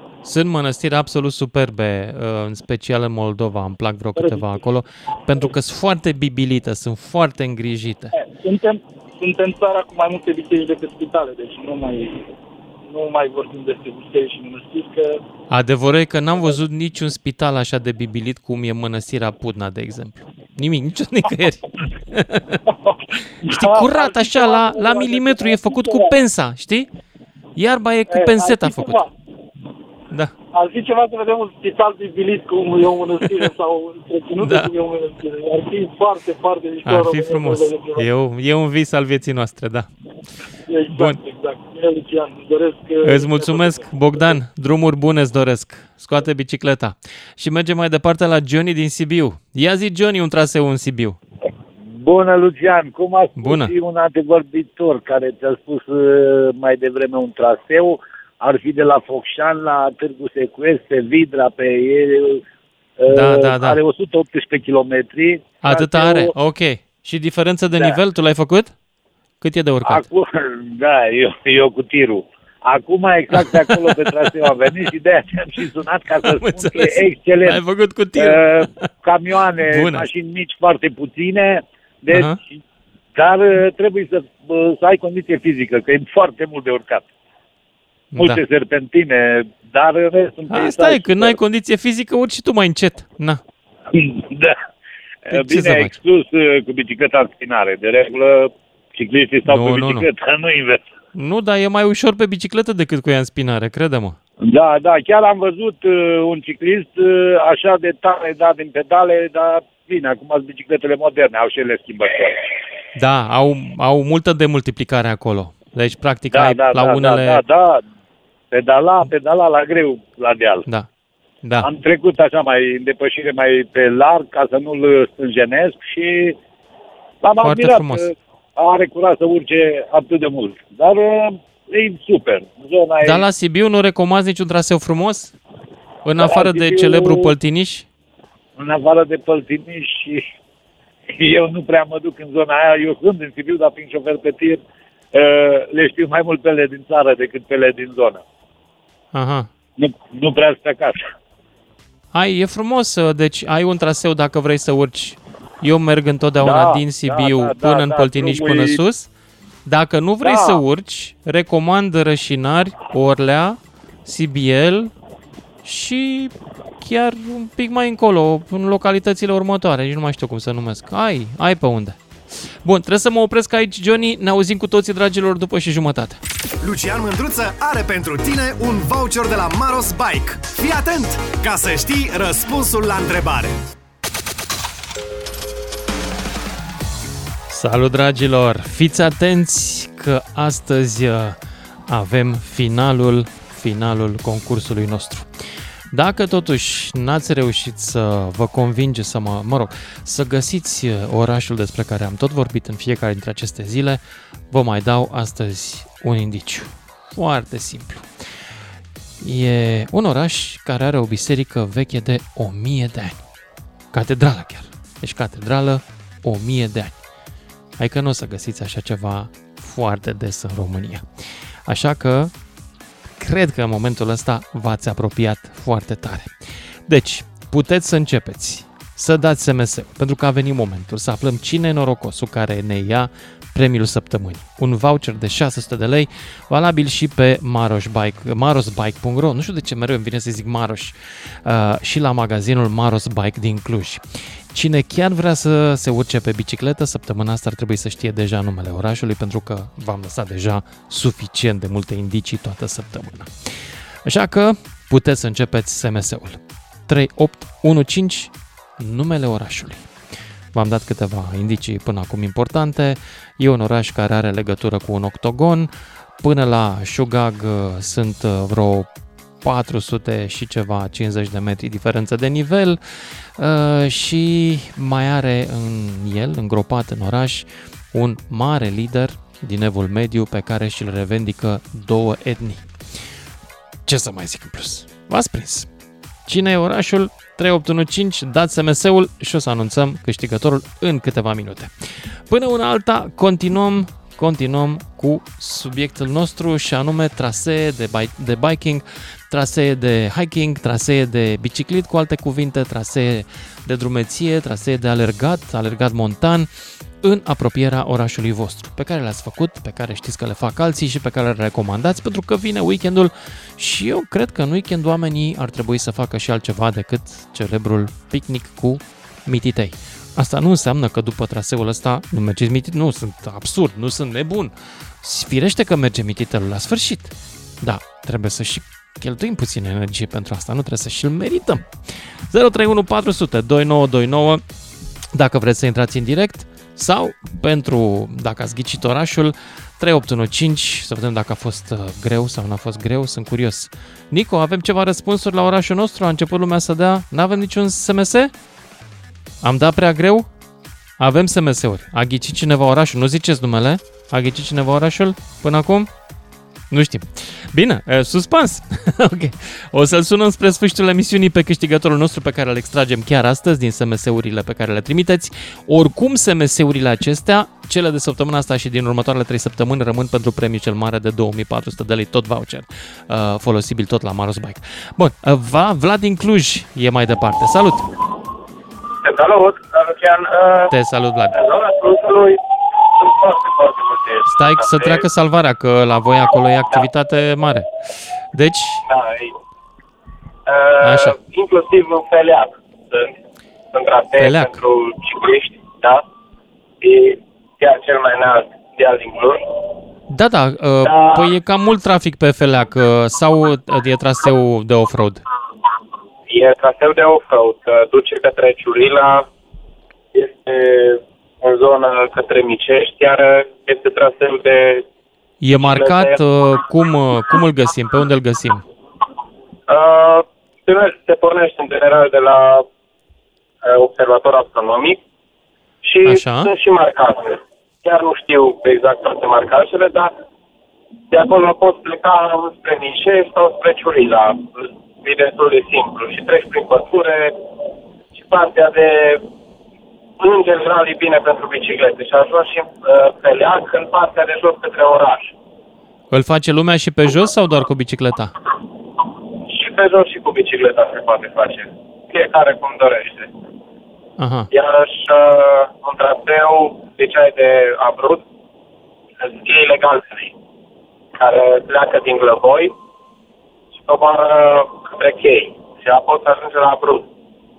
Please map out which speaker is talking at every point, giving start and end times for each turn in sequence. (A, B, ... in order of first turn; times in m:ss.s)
0:00.2-0:08.1 A
0:04.2-0:04.6 B
0:08.1-0:12.3 B
0:12.9-0:15.2 B
0:15.5-0:22.5 A
0:22.7-0:26.1 B
0:23.4-0:26.9 A
0:27.6-0:29.1 A
0:28.1-0:29.1 B
0:30.5-0:38.1 B
0:34.4-0:34.7 A
0:36.8-0:39.9 A
0:40.7-0:44.3 B
0:40.9-0:41.2 A
0:43.0-0:51.2 A
0:51.9-1:02.4 C
0:53.4-0:53.7 A
1:03.0-1:06.3 C
1:03.1-1:03.8 A
1:05.6-1:08.7 A
1:09.4-1:10.1 A
1:09.8-1:17.6 C
1:13.3-1:14.1 A
1:16.2-1:18.7 A
1:18.2-1:22.4 C
1:19.7-1:20.1 A
1:22.1-1:22.4 A
1:23.2-1:27.1 C
1:28.1-1:28.4 A
1:28.2-1:31.4 C
1:30.5-1:33.4 A
1:33.9-1:34.6 C
1:35.2-1:40.8 C
1:35.3-1:36.0 A
1:39.5-1:40.1 A
1:41.2-1:44.2 A
1:44.4-1:52.5 C
1:53.0-1:57.4 A
1:56.3-1:57.8 C
1:58.5-2:00.7 C
2:01.4-2:01.7 A
2:01.6-2:06.4 C
2:07.2-2:13.2 C
2:07.4-2:08.1 A
2:13.0-2:15.4 A
2:16.0-2:17.9 A
2:16.2-2:17.3 C
2:18.6-2:20.2 C
2:21.1-2:24.6 C
2:25.1-2:28.2 C
2:29.1-2:29.5 A
2:29.8-2:31.0 C
2:32.1-2:39.1 A
2:36.4-2:38.8 C
2:39.7-2:44.9 A
2:40.2-2:40.6 C
2:45.6-2:52.0 A
2:52.6-2:56.2 A
2:56.6-3:03.5 D
3:07.5-3:15.3 A
3:15.9-3:28.1 A
3:29.2-3:33.2 A
3:33.9-3:37.0 A
3:37.8-3:41.1 A
3:41.7-3:42.3 A
3:43.2-3:46.3 A
3:46.9-4:19.9 A
4:20.5-4:28.9 A
4:29.4-4:32.8 A
4:33.4-4:42.7 A
4:43.9-4:45.7 A
4:46.3-5:06.5 A
5:07.0-5:31.7 A
5:32.3-5:34.4 A
5:35.1-5:48.3 A
5:49.4-5:50.3 A
5:51.0-5:55.9 A
5:56.7-6:17.9 A
6:19.0-6:20.7 E
6:20.7-6:21.4 A
6:21.3-6:25.0 E
6:24.3-6:27.7 A
6:28.3-6:28.8 A
6:28.9-6:29.3 E
6:30.5-6:33.1 E
6:30.8-6:31.2 A
6:33.7-6:36.0 E
6:34.2-6:34.6 A
6:36.8-6:39.5 E
6:40.1-6:45.2 A
6:40.8-6:41.3 E
6:46.3-6:49.3 E
6:50.1-6:54.8 E
6:55.4-6:58.6 A
6:55.5-6:56.2 E
6:59.7-7:02.7 E
7:03.6-7:05.0 E
7:05.8-7:10.1 E
7:06.0-7:06.5 A
7:11.1-7:17.5 E
7:18.2-7:19.2 E
7:20.2-7:25.3 E
7:26.1-7:28.3 A
7:29.5-7:33.3 E
7:34.2-7:34.5 A
7:34.5-7:38.2 E
7:39.2-7:40.3 E
7:41.2-7:42.7 E
7:43.8-7:47.1 E